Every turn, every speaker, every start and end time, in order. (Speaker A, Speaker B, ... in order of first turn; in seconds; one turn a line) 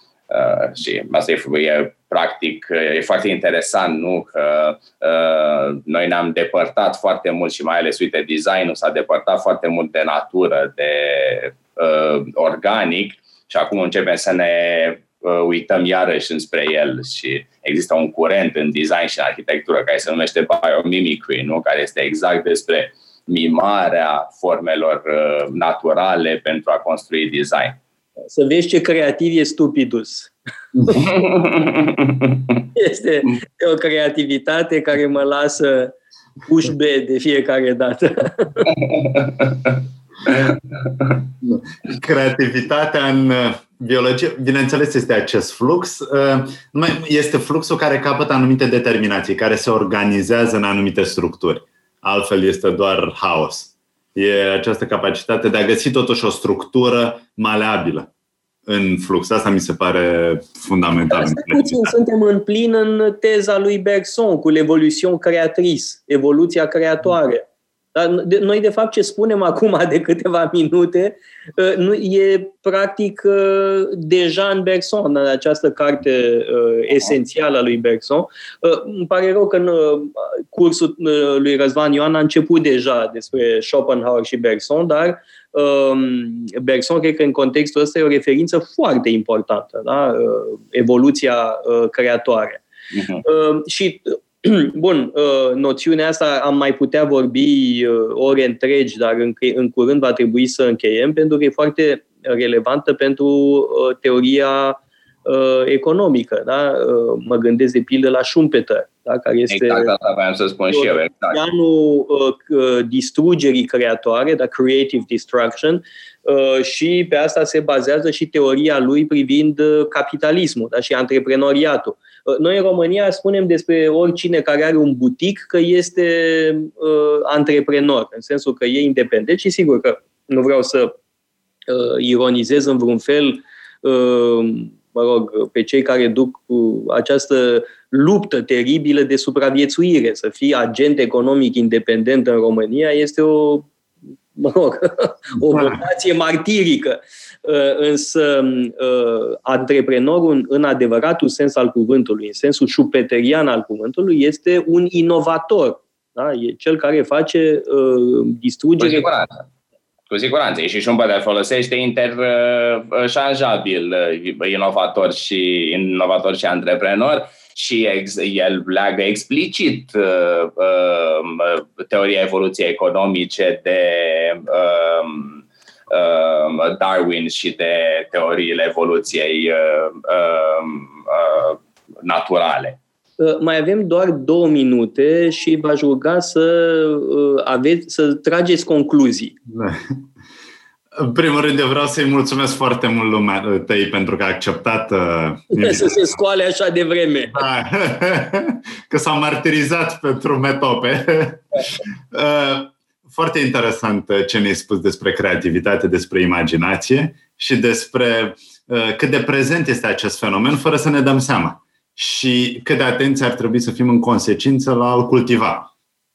Speaker A: 0.3-27.8
Speaker B: 28.3-30.3
Speaker A: 30.9-32.6
Speaker B: 32.7-38.7
Speaker A: 38.7-41.2
Speaker C: 41.4-58.1
Speaker C: 58.7-62.0
Speaker B: 61.1-92.6
Speaker A: 92.9-93.2
Speaker B: 93.2-109.9
Speaker A: 109.5-111.4
Speaker B: 110.7-130.9
Speaker B: 131.7-143.7
Speaker B: 144.4-159.1
Speaker C: 145.5-145.8
Speaker A: 158.8-159.4
Speaker A: 160.1-182.8
Speaker B: 183.2-189.3
Speaker C: 189.5-190.1
Speaker C: 190.9-196.1
Speaker B: 195.6-197.4
Speaker C: 197.3-215.7